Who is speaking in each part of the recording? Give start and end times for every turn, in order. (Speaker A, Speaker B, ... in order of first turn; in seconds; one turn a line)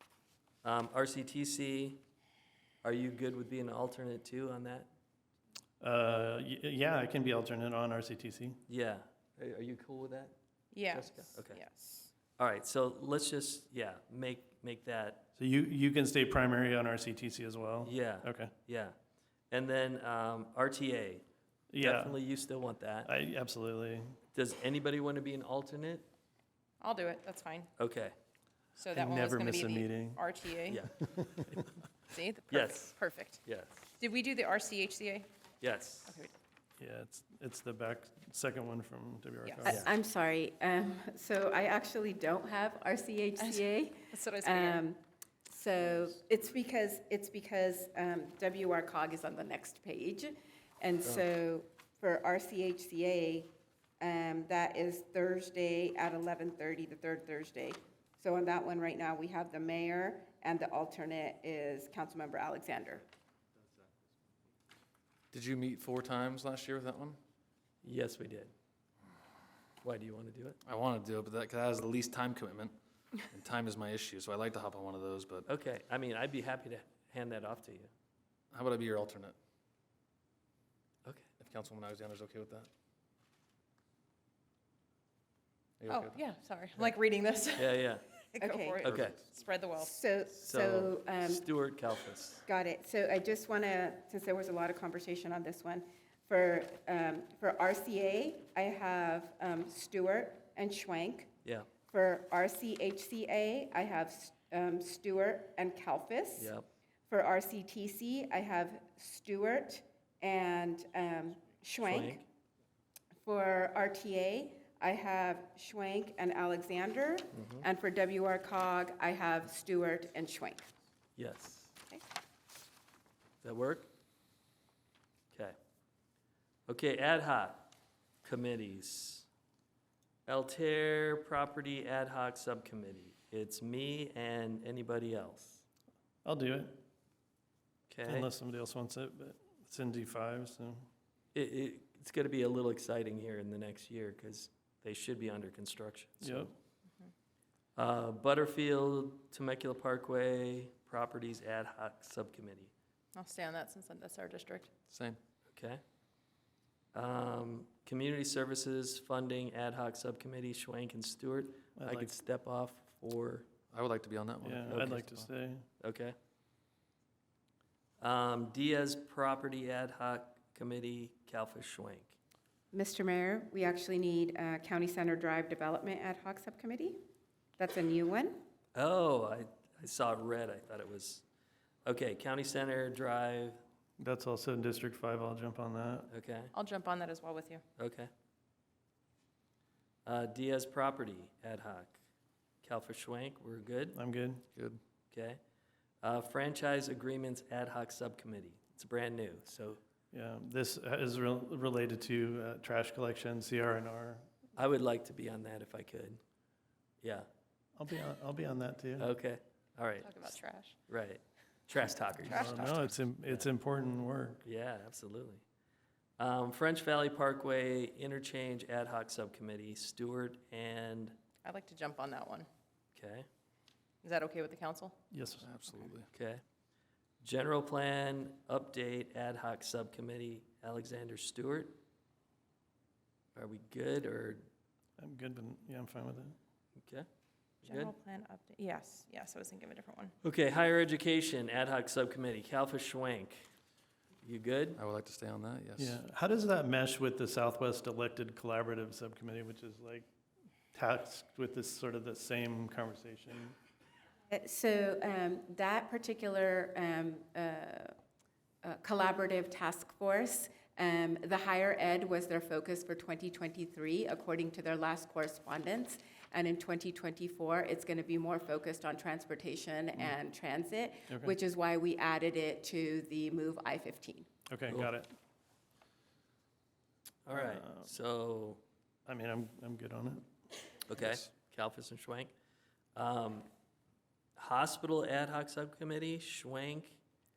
Speaker A: 0.6-2.0
Speaker A: 2.8-4.9
Speaker B: 5.8-8.6
Speaker A: 8.7-10.3
Speaker C: 10.7-12.1
Speaker A: 10.9-11.6
Speaker A: 12.4-15.3
Speaker B: 15.4-18.5
Speaker A: 17.8-18.9
Speaker A: 19.5-21.2
Speaker B: 21.7-22.2
Speaker A: 21.8-23.1
Speaker B: 23.0-24.2
Speaker A: 24.3-26.1
Speaker C: 26.8-27.7
Speaker A: 27.8-28.1
Speaker C: 28.8-30.8
Speaker B: 28.9-30.2
Speaker A: 30.7-31.7
Speaker B: 31.1-31.6
Speaker C: 32.1-33.4
Speaker A: 32.5-33.9
Speaker C: 34.0-35.3
Speaker A: 35.6-36.2
Speaker C: 36.1-36.3
Speaker B: 36.8-39.9
Speaker D: 39.6-63.0
Speaker C: 43.4-44.8
Speaker E: 65.3-67.2
Speaker A: 67.8-68.5
Speaker A: 69.8-70.6
Speaker E: 70.6-72.7
Speaker E: 73.3-75.5
Speaker A: 75.5-77.9
Speaker E: 78.5-79.3
Speaker E: 81.4-82.7
Speaker E: 85.8-86.2
Speaker C: 85.9-89.9
Speaker A: 87.5-88.1
Speaker D: 88.4-88.9
Speaker A: 88.8-89.2
Speaker E: 88.8-89.2
Speaker D: 89.8-91.5
Speaker A: 90.3-92.4
Speaker D: 92.5-101.3
Speaker D: 101.9-106.5
Speaker A: 106.4-106.7
Speaker D: 107.1-112.2
Speaker A: 111.8-112.2
Speaker D: 113.2-120.7
Speaker A: 117.3-117.6
Speaker A: 121.2-121.7
Speaker A: 123.4-123.9
Speaker A: 126.7-127.7
Speaker A: 128.2-129.3
Speaker A: 130.3-135.6
Speaker B: 136.2-136.8
Speaker A: 137.9-138.3
Speaker B: 138.0-140.9
Speaker A: 141.3-146.5
Speaker B: 146.2-146.5
Speaker A: 147.8-152.7
Speaker C: 153.1-154.7
Speaker E: 154.9-155.2
Speaker A: 155.5-155.8
Speaker A: 156.9-163.5
Speaker B: 161.8-162.2
Speaker E: 163.7-165.3
Speaker B: 164.4-165.7
Speaker A: 165.8-166.1
Speaker A: 168.0-172.2
Speaker D: 172.7-177.0
Speaker D: 177.6-178.4
Speaker A: 178.7-181.2
Speaker A: 181.8-183.6
Speaker B: 184.0-186.1
Speaker A: 186.1-186.5
Speaker C: 186.5-187.6
Speaker A: 187.8-188.1
Speaker A: 190.1-192.0
Speaker A: 192.6-194.0
Speaker B: 193.9-194.4
Speaker E: 194.5-194.8
Speaker A: 195.1-195.4
Speaker A: 196.0-199.8
Speaker B: 200.1-204.3
Speaker A: 204.6-206.2
Speaker A: 207.0-207.3
Speaker B: 207.8-209.1
Speaker A: 209.0-210.3
Speaker C: 210.0-210.8
Speaker A: 210.9-213.5
Speaker B: 212.2-214.4
Speaker C: 212.2-212.8
Speaker A: 214.4-215.4
Speaker A: 216.2-221.2
Speaker C: 221.4-222.5
Speaker A: 222.9-223.3
Speaker C: 224.0-224.9
Speaker B: 225.1-225.5
Speaker E: 225.4-226.1
Speaker A: 226.1-226.4
Speaker A: 227.2-231.8
Speaker A: 233.3-234.4
Speaker B: 235.0-236.3
Speaker A: 236.8-237.1
Speaker C: 237.6-240.1
Speaker A: 237.6-237.9
Speaker A: 240.2-243.5
Speaker A: 244.2-244.8
Speaker E: 244.8-246.0
Speaker B: 245.8-250.1
Speaker B: 250.7-253.5
Speaker D: 254.3-257.9
Speaker D: 258.6-274.3
Speaker B: 271.1-271.4
Speaker B: 274.5-275.1
Speaker A: 277.2-278.6
Speaker B: 277.3-277.9
Speaker B: 279.1-280.2
Speaker A: 280.9-282.3
Speaker B: 281.0-281.2
Speaker A: 282.9-283.5
Speaker A: 284.4-287.0